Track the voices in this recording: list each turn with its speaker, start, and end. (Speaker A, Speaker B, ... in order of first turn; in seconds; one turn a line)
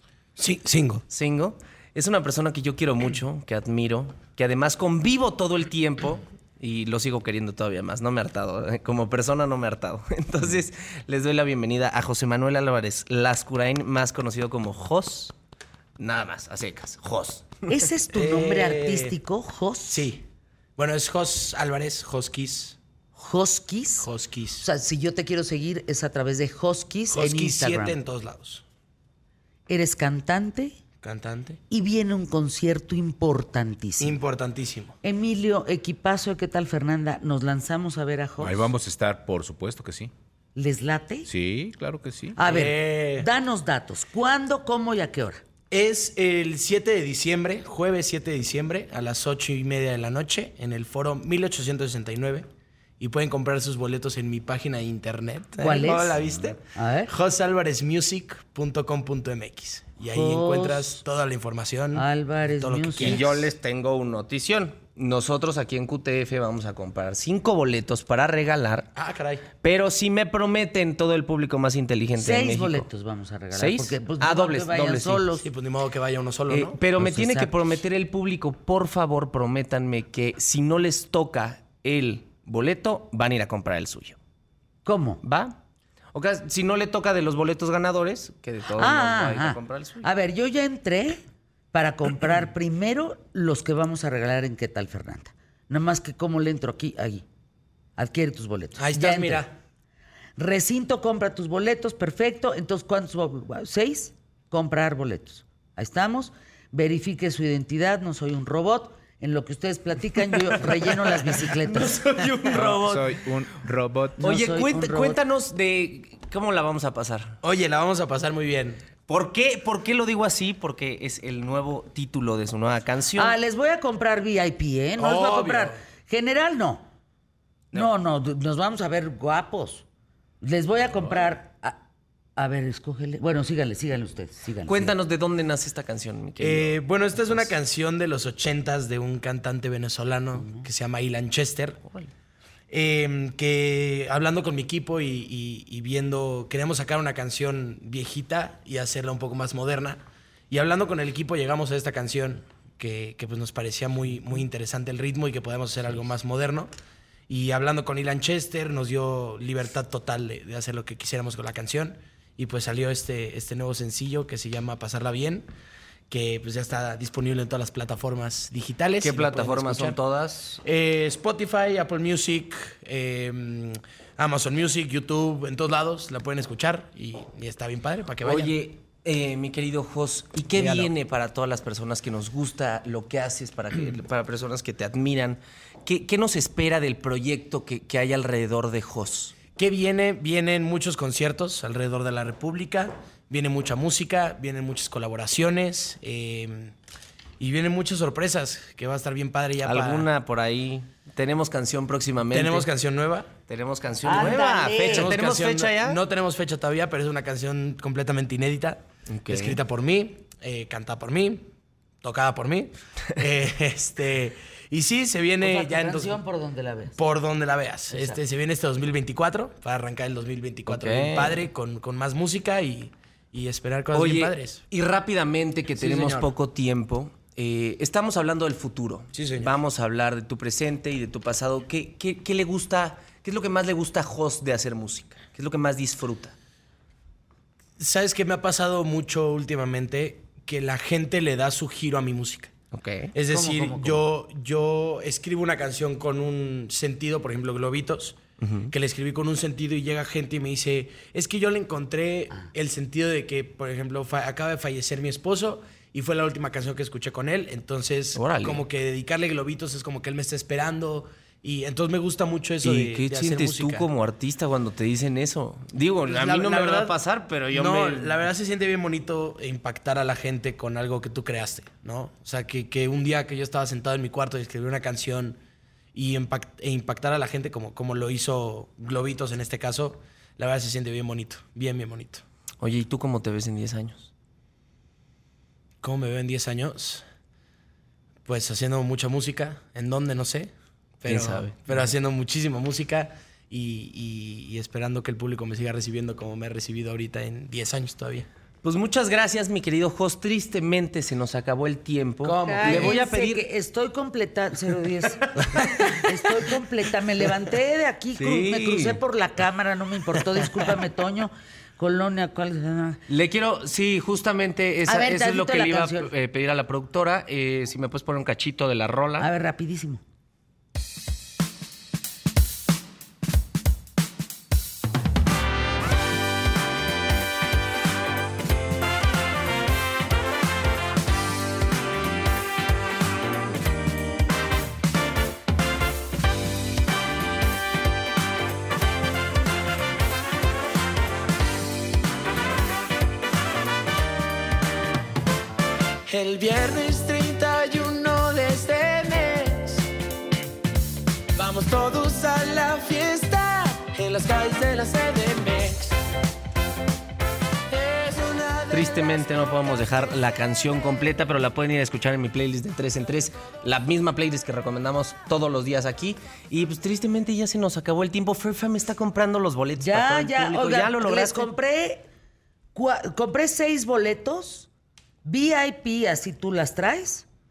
Speaker A: 0.4-1.0
Speaker B: 1.1-15.3
Speaker B: 16.0-17.9
Speaker C: 17.7-20.1
Speaker A: 18.1-19.2
Speaker A: 19.9-20.2
Speaker A: 20.8-22.8
Speaker C: 23.2-28.0
Speaker A: 24.0-24.7
Speaker A: 27.1-28.6
Speaker C: 29.7-30.8
Speaker A: 31.0-31.6
Speaker C: 31.7-34.2
Speaker A: 34.0-35.0
Speaker C: 35.0-38.7
Speaker D: 38.4-40.1
Speaker C: 40.5-41.3
Speaker D: 41.3-42.4
Speaker C: 42.4-45.4
Speaker A: 42.4-43.3
Speaker A: 45.7-52.5
Speaker A: 53.0-63.5
Speaker C: 55.6-56.2
Speaker C: 56.7-57.1
Speaker C: 60.1-61.0
Speaker C: 61.9-63.2
Speaker B: 63.0-68.9
Speaker A: 69.0-69.5
Speaker B: 69.6-72.9
Speaker C: 72.2-75.5
Speaker B: 73.5-75.2
Speaker A: 75.4-76.8
Speaker B: 76.5-84.2
Speaker C: 77.0-77.8
Speaker C: 84.8-85.2
Speaker B: 85.2-85.6
Speaker B: 86.1-90.1
Speaker C: 88.7-91.2
Speaker C: 91.7-97.2
Speaker C: 98.0-99.5
Speaker A: 98.8-99.5
Speaker C: 100.4-112.0
Speaker B: 110.9-113.3
Speaker D: 112.4-114.2
Speaker C: 114.2-115.2
Speaker B: 114.2-117.4
Speaker A: 117.4-118.8
Speaker B: 119.1-123.4
Speaker C: 123.2-126.9
Speaker A: 125.0-125.8
Speaker C: 127.7-129.9
Speaker C: 130.4-131.8
Speaker C: 132.4-134.9
Speaker B: 134.7-137.5
Speaker A: 136.4-141.8
Speaker C: 140.4-140.7
Speaker A: 142.7-156.7
Speaker A: 157.3-165.5
Speaker A: 166.1-170.0
Speaker B: 169.0-170.6
Speaker A: 170.6-178.5
Speaker B: 178.2-189.4
Speaker A: 180.5-180.9
Speaker A: 189.6-196.8
Speaker A: 197.4-200.1
Speaker B: 199.6-202.7
Speaker A: 202.3-203.3
Speaker B: 203.5-206.0
Speaker C: 204.0-205.1
Speaker A: 204.1-211.5
Speaker B: 209.1-209.6
Speaker A: 212.0-216.2
Speaker C: 215.4-217.0
Speaker A: 217.0-224.6
Speaker C: 217.9-218.2
Speaker B: 220.7-221.5
Speaker B: 223.9-236.3
Speaker A: 225.8-226.3
Speaker A: 229.1-229.5
Speaker A: 237.8-242.5
Speaker B: 242.7-243.1
Speaker A: 243.1-263.9
Speaker C: 243.3-244.0
Speaker B: 248.4-248.7
Speaker B: 258.1-258.6
Speaker B: 262.6-268.3
Speaker A: 266.1-267.0
Speaker A: 267.5-275.4
Speaker A: 275.9-282.2
Speaker B: 282.6-284.1
Speaker A: 285.8-287.1
Speaker A: 288.3-298.3
Speaker B: 291.1-291.9
Speaker B: 298.6-303.5
Speaker A: 302.2-303.0
Speaker C: 302.4-313.0
Speaker B: 305.6-305.9
Speaker B: 308.2-309.0
Speaker B: 313.1-319.3
Speaker C: 314.9-316.1
Speaker C: 319.2-320.0
Speaker A: 346.1-349.9
Speaker A: 351.4-356.0
Speaker A: 357.7-359.2
Speaker B: 358.7-371.5
Speaker C: 369.8-372.1
Speaker C: 372.7-374.7
Speaker C: 375.2-377.3